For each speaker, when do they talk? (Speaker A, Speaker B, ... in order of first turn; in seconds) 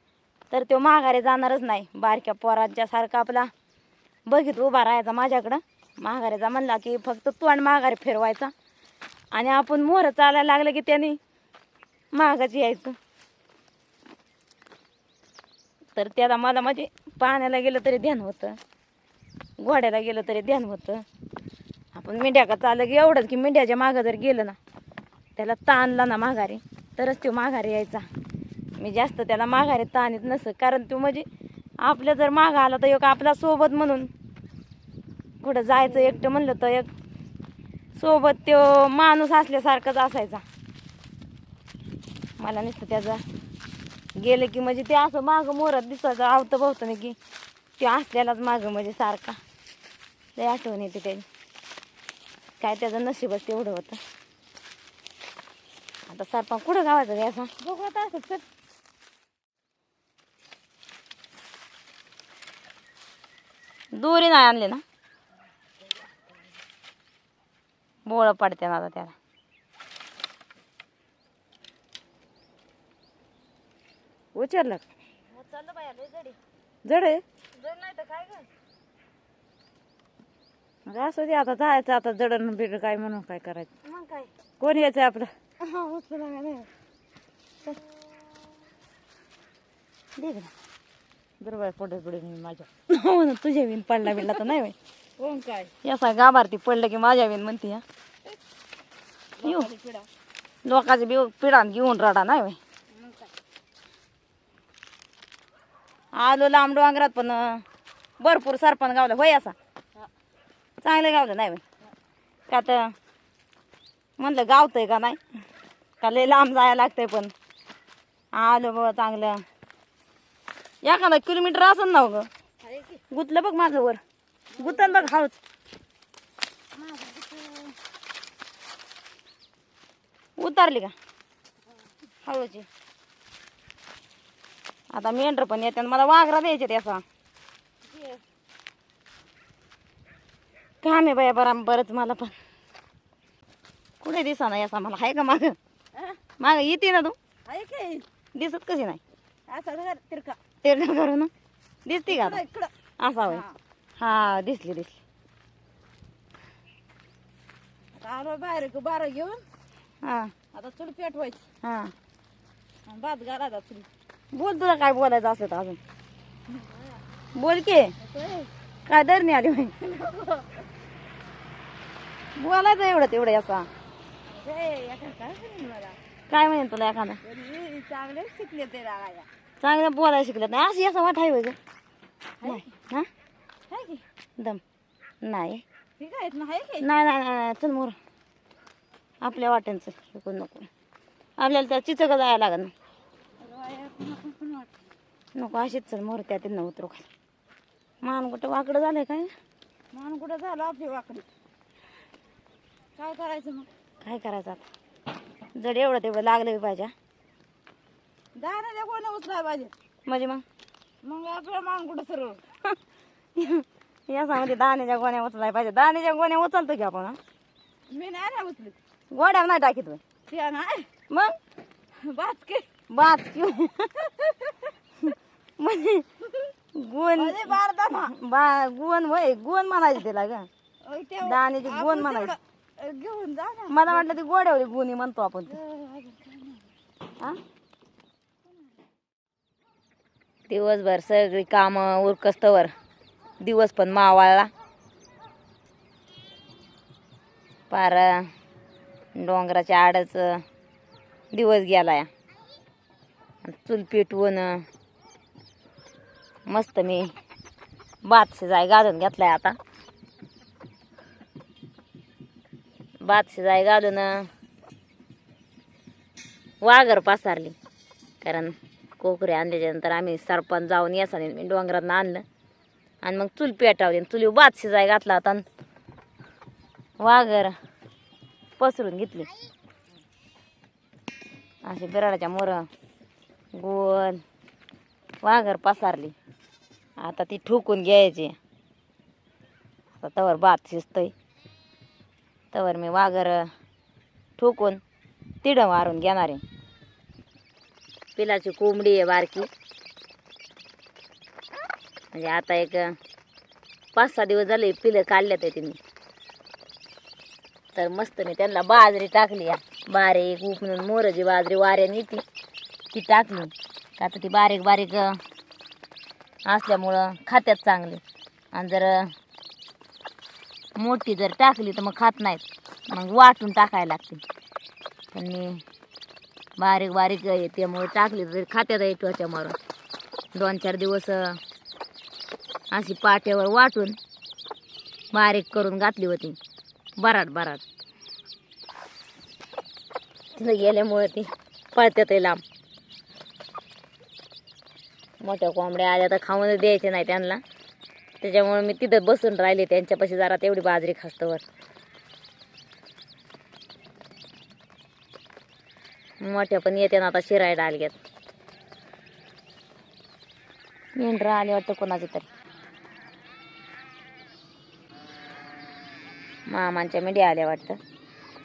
Speaker A: 0.5-3.5, 4.3-8.5, 9.3-11.2, 12.1-12.9, 15.9-18.6, 19.6-21.0, 21.9-24.6, 25.4-28.1, 28.8-31.2, 31.8-34.1, 35.4-36.9, 38.0-40.4, 42.4-43.2, 44.2-47.2, 47.8-49.4, 50.4-51.2, 52.6-54.0, 56.1-57.5, 63.9-64.8, 68.0-69.1, 75.3-76.4, 77.5-78.5, 83.8-84.4, 85.6-86.7, 90.2-90.5, 92.9-94.7, 95.8-97.8, 100.6-102.6, 106.2-107.6, 108.2-109.5, 110.8-111.6, 112.5-112.9, 114.2-115.2, 116.0-117.3, 118.3-119.4, 120.8-122.3, 123.1-124.0, 124.6-125.4, 130.4-130.9, 132.2-132.7, 134.9-137.0, 140.8-142.3, 144.0-145.6, 146.4-147.2, 148.3-149.0, 150.6-151.3, 151.8-152.4, 153.0-153.4, 154.0-155.0, 160.0-160.3, 161.6-161.9, 164.3-165.8, 167.3-167.9, 168.9-169.7, 172.3-173.7, 176.3-177.2, 179.6-181.6, 182.4-183.1, 185.2-185.6, 186.8-187.9, 189.2-190.7, 191.4-192.7, 195.3-197.1, 198.0-199.3, 204.0-204.6, 205.5-206.9, 210.1-210.4, 213.3-217.2, 219.1-220.0, 221.1-221.3, 222.9-224.0, 225.0-226.1, 226.7-230.5, 231.2-232.3, 233.7-235.6, 240.5-242.7, 243.4-244.5, 247.7-248.3, 249.1-250.4, 251.3-252.1, 253.4-254.6, 256.5-257.1, 258.0-259.6, 263.0-264.3, 266.6-267.6, 268.2-272.2, 273.0-275.4, 277.0-277.6, 278.6-279.3, 281.6-282.7, 283.5-284.2, 285.2-286.1, 287.0-288.4, 289.9-291.1, 292.5-293.5, 294.4-294.8, 295.4-296.4, 298.1-299.5, 302.1-302.9, 303.9-305.8, 307.7-312.2, 312.9-315.2, 316.5-318.0, 318.5-319.1, 320.8-324.2, 325.1-325.6, 326.6-329.6, 330.3-331.4, 332.7-334.0, 335.1-336.4, 337.0-337.6, 340.3-342.4, 345.2-347.4, 348.2-351.4, 356.2-358.0, 360.9-362.3, 366.5-367.8
Speaker B: 57.6-58.4, 74.3-74.8, 76.8-77.2, 80.9-83.7, 84.6-85.3, 91.4-92.7, 94.2-94.5, 95.2-95.7, 99.4-100.1, 102.9-103.3, 122.6-123.0, 124.5-125.1, 126.7-127.8, 137.8-138.2, 145.9-146.2, 147.4-148.1, 149.5-150.4, 152.1-152.7, 153.2-153.6, 157.9-159.4, 160.5-161.5, 162.8-163.9, 166.5-167.0, 168.0-168.5, 169.8-170.6, 174.3-176.0, 177.2-179.3, 182.4-182.7, 183.7-184.0, 186.0-186.9, 193.4-194.8, 199.9-201.2, 202.9-203.7, 208.3-209.7, 211.0-212.4, 217.9-218.8, 220.3-220.9, 222.0-222.7, 224.1-224.7, 227.1-228.1, 230.8-234.1, 235.5-236.7